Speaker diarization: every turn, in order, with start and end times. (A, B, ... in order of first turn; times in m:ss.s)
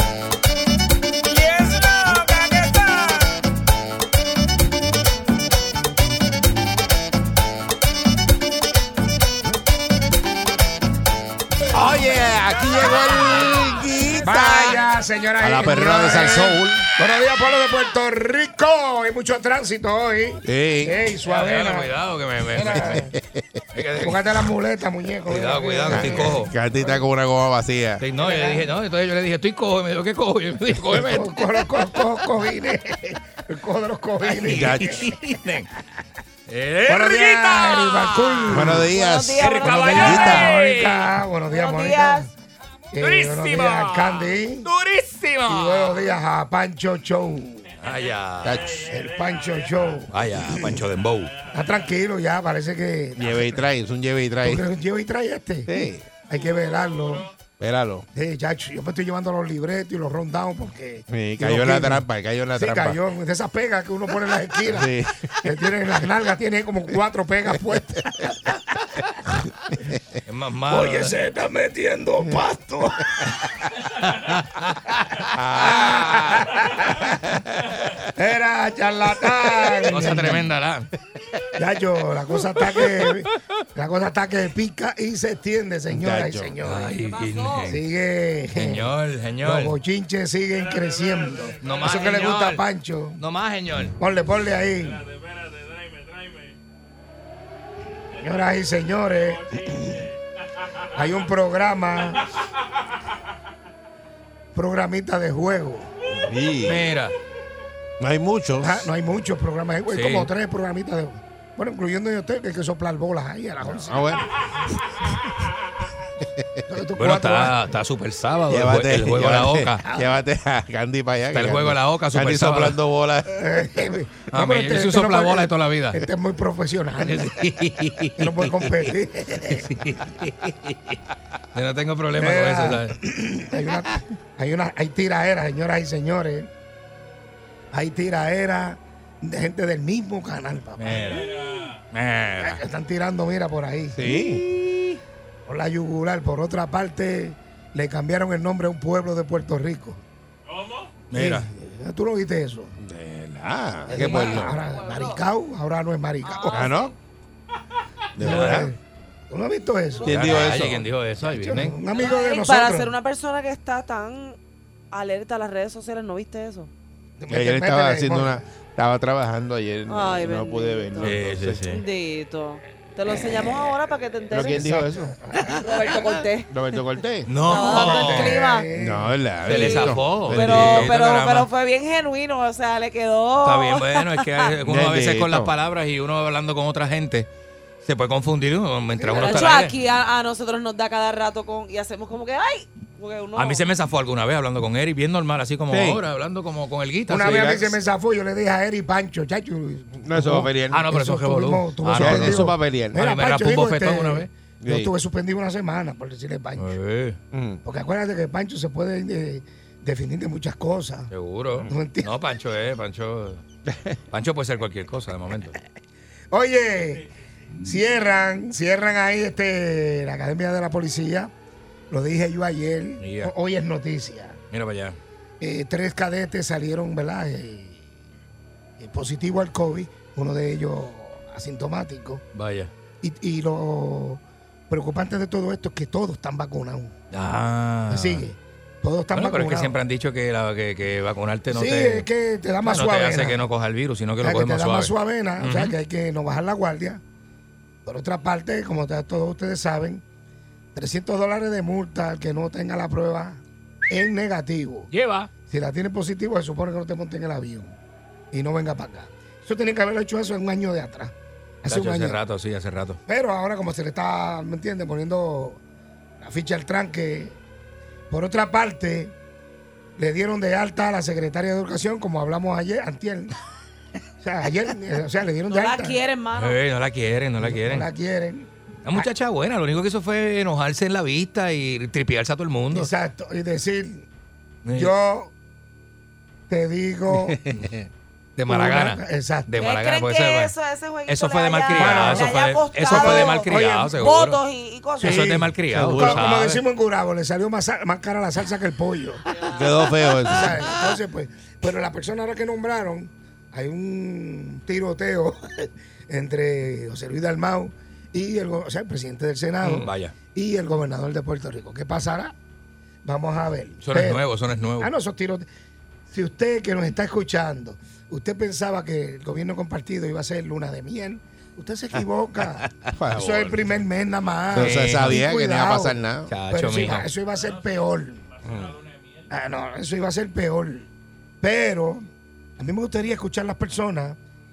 0:01.3-0:03.4 A
0:11.7-0:14.8 B
0:14.2-0:21.9 C
0:15.4-0:16.9 B
0:20.4-0:21.0 B
0:21.3-0:23.0 D
0:22.5-0:23.2 C
0:22.8-0:23.4 B
0:23.7-0:24.2 D
0:24.0-0:27.0 C
0:25.3-0:26.5 D
0:25.9-0:28.0 B
0:28.0-0:31.4 D
0:28.2-0:28.7 C
0:30.9-0:35.1 C
0:34.4-0:35.7 D
0:34.4-0:35.0 B
0:36.5-0:38.8 D
0:36.9-0:38.9 C
0:38.5-0:40.5 B
0:38.8-0:40.5 E
0:39.4-0:41.1 D
0:39.5-0:42.3 C
0:41.5-0:42.3 E
0:42.9-0:44.7 C
0:43.0-0:46.0 D
0:45.5-0:47.7 C
0:47.8-0:48.7 D
0:48.4-0:48.9 B
0:48.9-0:50.8 C
0:50.1-0:51.3 D
0:51.5-0:53.7 C
0:53.2-0:54.7 B
0:54.4-0:57.3 C
0:55.7-0:56.1 B
0:57.6-0:58.1 B
0:58.1-1:02.0 C
1:01.1-1:03.0 B
1:02.6-1:04.9 C
1:04.7-1:05.6 B
1:05.4-1:08.6 C
1:10.3-1:11.1 D
1:10.7-1:13.5 C
1:14.0-1:15.0 D
1:15.3-1:16.6 B
1:15.6-1:17.2 C
1:17.2-1:18.0 B
1:18.2-1:20.5 C
1:19.8-1:20.9 D
1:21.6-1:26.9 C
1:25.9-1:26.6 B
1:26.6-1:27.8 D
1:26.8-1:27.8 E
1:27.7-1:28.9 C
1:28.5-1:29.7 D
1:29.4-1:33.2 C
1:31.6-1:32.6 D
1:33.2-1:34.0 D
1:34.0-1:35.0 C
1:38.2-1:40.0 C
1:40.9-1:42.3 C
1:44.6-1:45.9 C
1:46.1-1:46.9 B
1:46.6-1:47.1 D
1:48.0-1:48.9 B
1:48.6-1:54.2 C
1:49.9-1:50.3 D
1:53.7-1:54.4 B
1:56.2-1:56.6 B
1:56.7-1:57.6 C
1:57.0-1:59.8 D
1:58.5-2:03.6 B
1:59.9-2:00.1 C
2:01.3-2:02.8 D
2:03.3-2:07.5 C
2:04.3-2:06.0 D
2:07.0-2:08.7 D
2:08.2-2:09.8 C
2:09.5-2:11.0 D
2:11.5-2:13.0 D
2:12.2-2:16.5 C
2:17.7-2:21.3 C
2:20.8-2:22.6 D
2:22.4-2:24.7 C
2:24.0-2:24.4 B
2:25.5-2:30.0 C
2:31.1-2:31.5 D
2:31.1-2:32.7 C
2:32.8-2:34.6 B
2:33.9-2:36.8 C
2:33.9-2:35.2 E
2:36.2-2:36.9 E
2:36.5-2:36.9 B
2:38.2-2:38.7 B
2:38.2-2:38.8 C
2:38.2-2:38.6 D
2:39.3-2:40.2 C
2:39.9-2:40.5 E
2:40.0-2:40.8 B
2:40.0-2:41.8 D
2:41.3-2:42.9 C
2:41.9-2:44.4 E
2:44.9-2:46.7 E
2:47.2-2:48.4 C
2:47.3-2:51.6 B
2:49.9-2:54.8 E
2:51.0-2:51.8 D
2:54.3-2:55.2 B
2:54.6-2:56.1 C
2:55.4-2:56.8 E
2:56.5-2:57.3 B
2:57.3-2:58.4 D
2:57.4-2:58.7 E
2:57.6-2:59.2 C
2:58.7-3:00.9 B
2:59.4-3:01.5 D
2:59.5-3:04.5 E
3:03.4-3:07.3 D
3:04.6-3:05.5 B
3:07.8-3:09.8 D
3:09.0-3:09.6 C
3:09.2-3:13.6 E
3:13.4-3:17.6 D
3:15.7-3:16.0 B
3:17.1-3:26.8 C
3:17.2-3:17.7 B
3:20.0-3:20.8 B
3:20.7-3:24.3 D
3:21.9-3:23.0 B
3:24.6-3:24.9 B
3:26.6-3:27.2 D
3:27.3-3:27.6 B
3:27.6-3:31.1 C
3:31.1-3:33.4 D
3:31.7-3:32.1 C
3:33.7-3:34.0 B
3:34.1-3:35.6 D
3:36.3-3:37.1 C
3:37.6-3:41.3 C
3:41.9-3:44.4 C
3:43.0-3:43.3 D
3:44.5-3:45.0 D
3:45.4-3:47.9 C
3:48.8-3:52.2 C
3:52.3-3:52.7 D
3:53.0-3:57.0 C
3:57.1-3:58.2 D
3:57.9-3:59.8 C
3:59.1-4:02.1 D
4:01.5-4:03.4 C
4:02.6-4:05.8 D
4:04.2-4:07.0 C
4:07.8-4:10.0 C
4:10.8-4:14.9 C
4:14.9-4:15.3 D
4:15.5-4:17.8 C
4:18.3-4:22.2 C
4:21.7-4:23.0 D
4:23.1-4:25.6 C
4:26.2-4:27.4 C
4:28.1-4:29.1 C
4:30.0-4:33.4 C
4:34.2-4:36.0 C
4:35.5-4:36.6 E
4:36.4-4:37.9 D
4:37.4-4:39.1 C
4:38.8-4:42.9 D
4:42.7-4:44.1 C
4:44.6-4:44.9 D
4:44.7-4:45.3 C
4:46.5-4:47.6 C
4:47.2-4:47.6 B
4:48.4-4:50.5 D
4:48.5-4:49.5 C
4:49.6-4:55.2 E
4:51.1-4:54.4 D
4:51.8-4:53.9 C
4:55.0-4:59.2 C
4:55.0-4:56.6 D
4:55.7-4:56.2 B
4:59.4-5:00.6 B
5:00.3-5:12.3 C
5:09.6-5:10.1 D
5:13.0-5:14.3 C
5:13.8-5:14.9 D
5:14.8-5:15.5 C
5:16.1-5:28.3 C
5:23.0-5:23.7 B
5:24.5-5:26.3 B
5:24.6-5:25.2 D
5:26.3-5:27.1 D
5:29.3-5:30.9 C
5:31.4-5:34.2 C